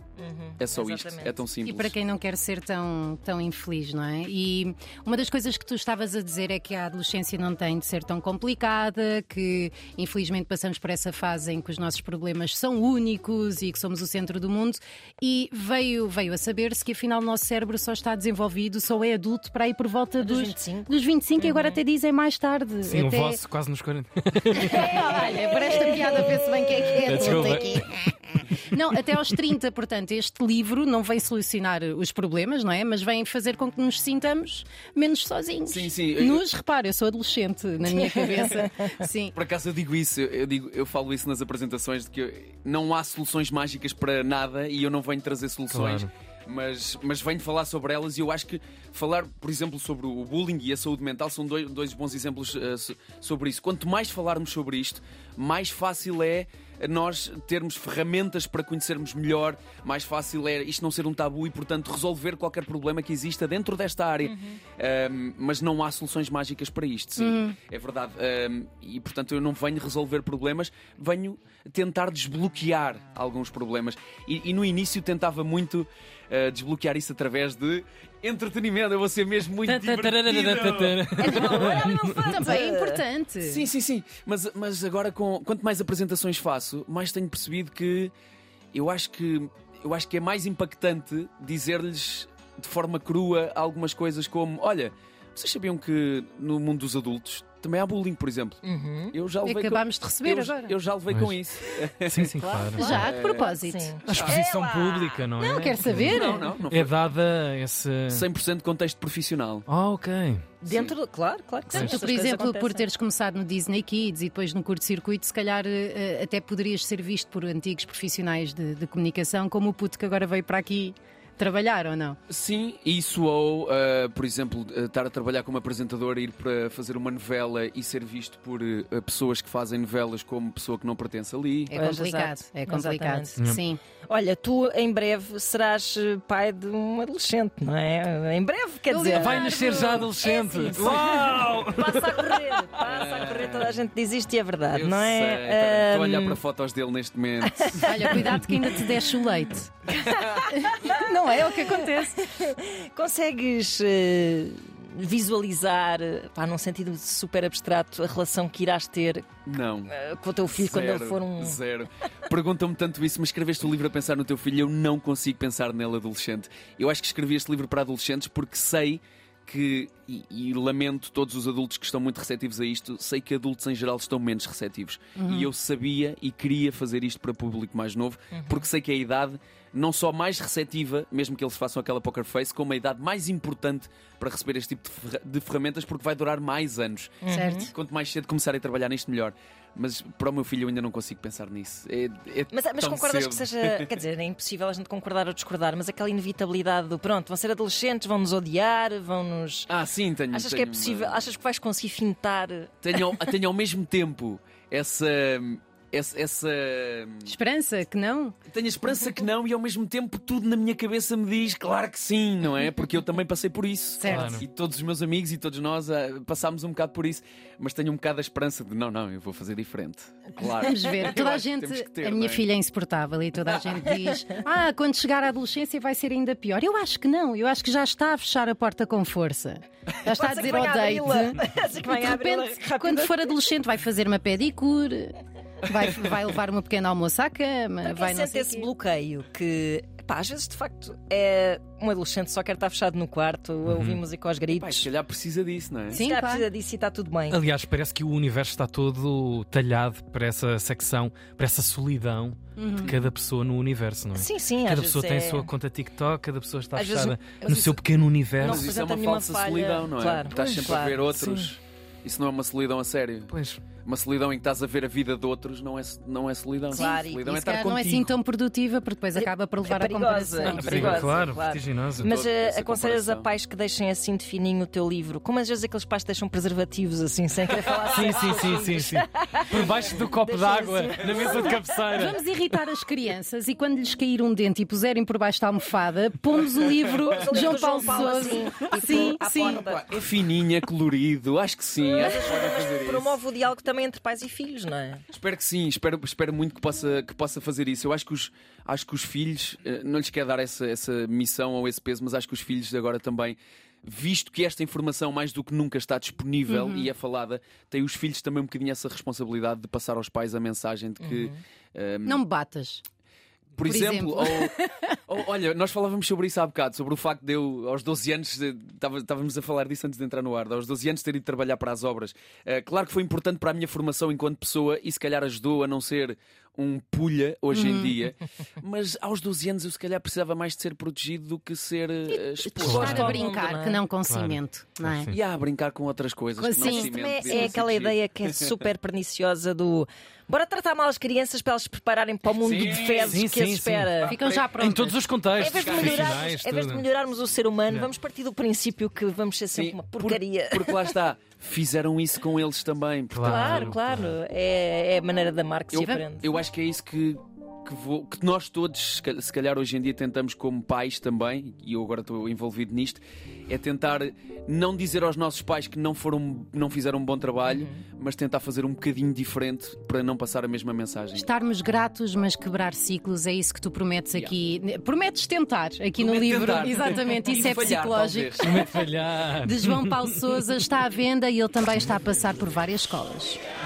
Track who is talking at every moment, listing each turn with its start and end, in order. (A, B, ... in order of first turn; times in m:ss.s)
0:00.2-0:01.4 A
0:00.6-0:02.0 B
0:01.6-0:23.4 C
0:20.2-0:21.8 A
0:22.8-0:25.0 D
0:24.5-0:28.2 C
0:24.7-0:27.8 A
0:27.0-0:27.8 D
0:28.7-0:39.4 C
0:35.7-0:36.5 B
0:37.8-0:39.0 A
0:39.3-1:21.7 B
0:45.7-0:46.1 D
1:04.2-1:04.6 A
1:07.2-1:07.6 C
1:19.7-1:22.4 D
1:21.2-1:23.0 A
1:21.7-1:23.6 C
1:23.4-1:28.1 B
1:28.7-1:38.6 B
1:38.6-1:39.2 A
1:39.1-1:42.3 B
1:39.4-1:40.8 C
1:41.1-1:41.4 D
1:42.0-1:43.0 D
1:42.4-1:45.9 A
1:42.8-1:44.0 C
1:42.9-1:43.5 B
1:44.0-1:48.2 D
1:44.1-1:44.5 B
1:45.4-1:46.6 C
1:45.9-1:47.0 B
1:48.1-1:49.7 B
1:49.7-1:50.4 D
1:50.6-1:52.9 A
1:50.7-1:51.0 B
1:51.7-2:02.2 C
1:51.7-1:52.0 D
2:02.3-2:11.7 B
2:11.7-2:13.8 C
2:11.7-2:13.4 A
2:14.1-2:26.4 A
2:18.9-2:20.2 C
2:19.1-2:22.4 D
2:22.8-2:23.8 B
2:24.7-2:28.4 B
2:27.4-2:28.6 A
2:27.8-2:29.7 C
2:29.9-2:39.3 A
2:30.5-2:32.2 C
2:39.4-2:39.9 B
2:39.9-2:41.6 A
2:40.6-3:13.9 B
2:55.2-2:55.5 C
2:58.3-2:58.7 A
3:07.2-3:07.7 A
3:07.3-3:07.7 C
3:12.5-3:19.7 A
3:19.7-3:21.2 B
3:20.3-3:23.2 A
3:22.8-3:27.3 B
3:27.2-3:28.4 C
3:28.5-3:42.4 B
3:34.0-3:34.4 C
3:34.1-3:34.4 D
3:40.6-3:58.7 C
3:43.5-3:44.4 A
3:50.1-3:53.4 A
3:57.8-4:04.9 A
4:03.7-4:04.0 D
4:04.5-4:06.0 B
4:05.9-4:06.5 C
4:05.9-4:07.4 A
4:07.3-4:18.7 D
4:12.6-4:12.9 C
4:14.1-4:15.5 A
4:16.7-4:17.8 A
4:18.4-4:21.0 A
4:18.4-4:23.3 B
4:20.3-4:21.5 D
4:23.3-4:23.6 D
4:23.8-4:27.8 B
4:26.7-4:27.7 A
4:26.7-4:31.0 C
4:27.6-4:28.1 D
4:29.1-4:41.9 A
4:30.4-4:31.3 B
4:30.6-4:32.1 D
4:32.0-4:33.3 B
4:37.8-4:42.6 D
4:41.9-4:49.6 C
4:47.1-4:50.0 A
4:49.1-4:53.2 B
4:51.9-4:55.0 A
4:55.1-5:12.2 B
5:06.5-5:06.9 C
5:11.0-5:11.4 A
5:12.1-5:12.8 C
5:13.6-5:33.2 B
5:13.6-5:15.0 C
5:27.5-5:27.9 C
5:32.1-5:35.1 C
5:32.6-5:33.8 A
5:32.6-5:33.2 D
5:34.0-5:35.2 D
5:35.1-5:38.1 B
5:36.4-5:37.5 C
5:36.6-5:44.2 A
5:42.4-5:43.2 B
5:43.1-5:44.1 D
5:44.0-5:45.0 C
5:44.1-5:44.5 B
5:44.6-5:46.8 D
5:45.4-5:51.0 A
5:45.4-5:46.2 B
5:49.5-5:53.7 B
5:53.1-5:54.2 D
5:53.2-5:56.3 A
5:55.7-5:56.0 C
5:55.8-6:11.3 B
6:07.5-6:07.8 A
6:11.1-6:18.8 C
6:16.0-6:18.6 B
6:18.4-6:20.6 D
6:19.4-6:23.4 C